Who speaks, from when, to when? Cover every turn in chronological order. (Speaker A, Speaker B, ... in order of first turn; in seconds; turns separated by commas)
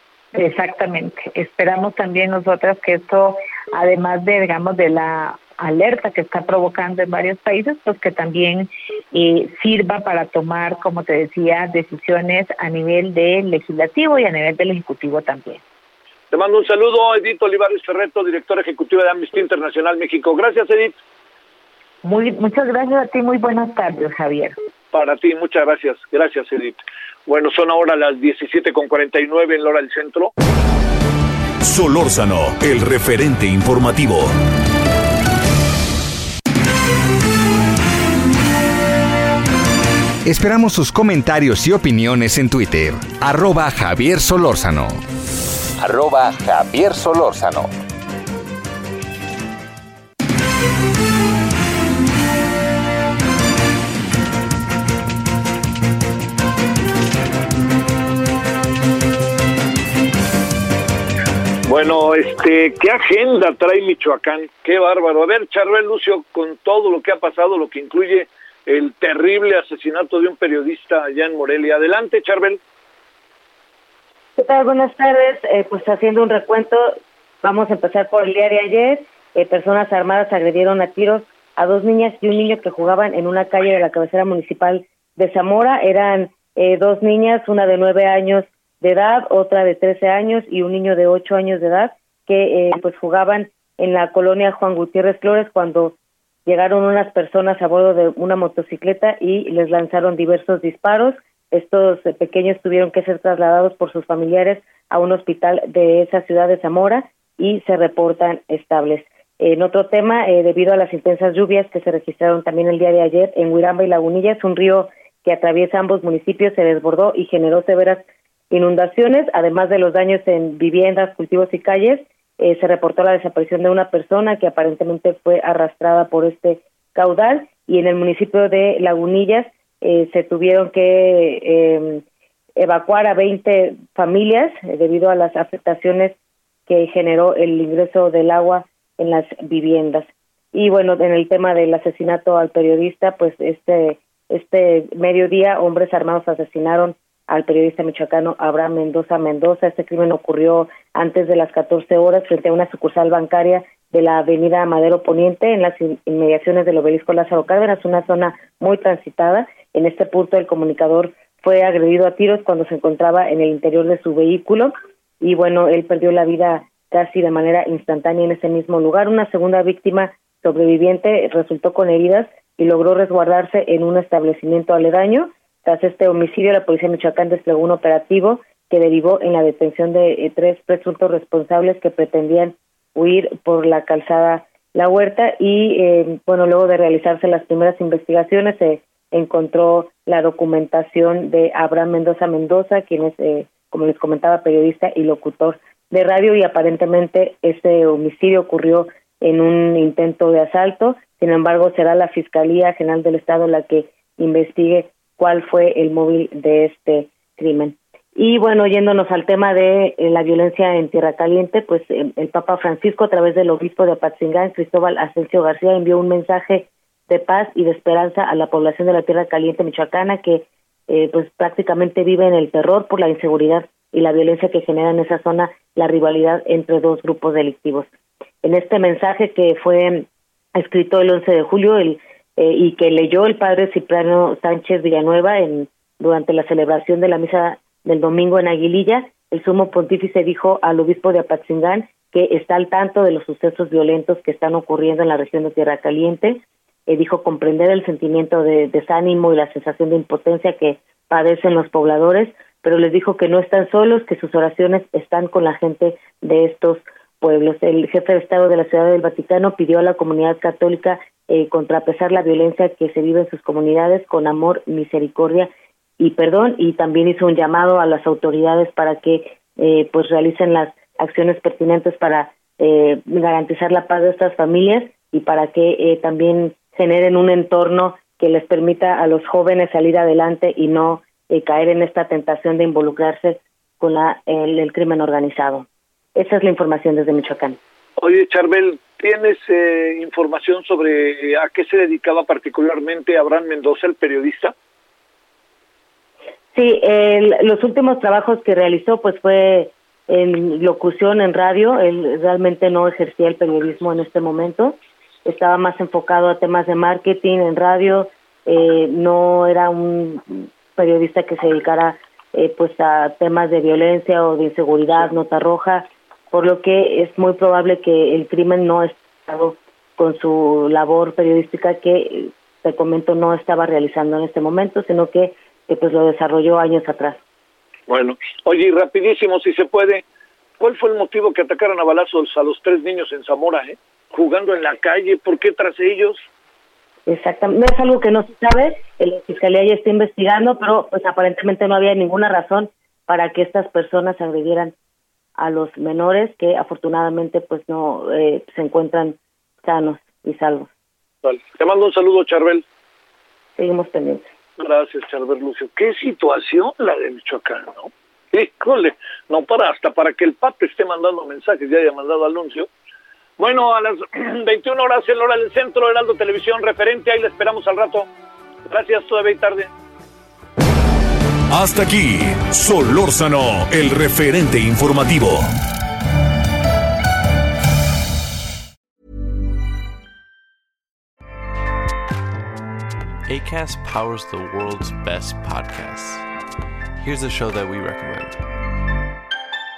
Speaker A: 0.3-15.6, Speaker B: 16.3-20.9, Speaker A: 22.0-24.6, Speaker B: 24.9-30.3, Speaker C: 31.6-34.4, Speaker D: 40.2-45.0, Speaker D: 45.8-47.7, Speaker B: 61.6-72.6, Speaker E: 74.4-95.9, Speaker E: 96.5-132.0, Speaker E: 132.6-136.2, Speaker E: 136.7-227.9, Speaker E: 228.4-287.6, Speaker B: 288.0-294.5, Speaker E: 296.5-327.2, Speaker B: 327.9-330.0, Speaker B: 330.6-336.2, Speaker E: 337.1-344.7, Speaker E: 345.4-350.7, Speaker B: 351.2-352.6, Speaker E: 353.6-354.3, Speaker B: 354.6-362.7, Speaker B: 363.4-368.1, Speaker B: 368.7-369.7, Speaker C: 371.5-375.5, Speaker F: 383.3-386.3, Speaker F: 387.0-388.4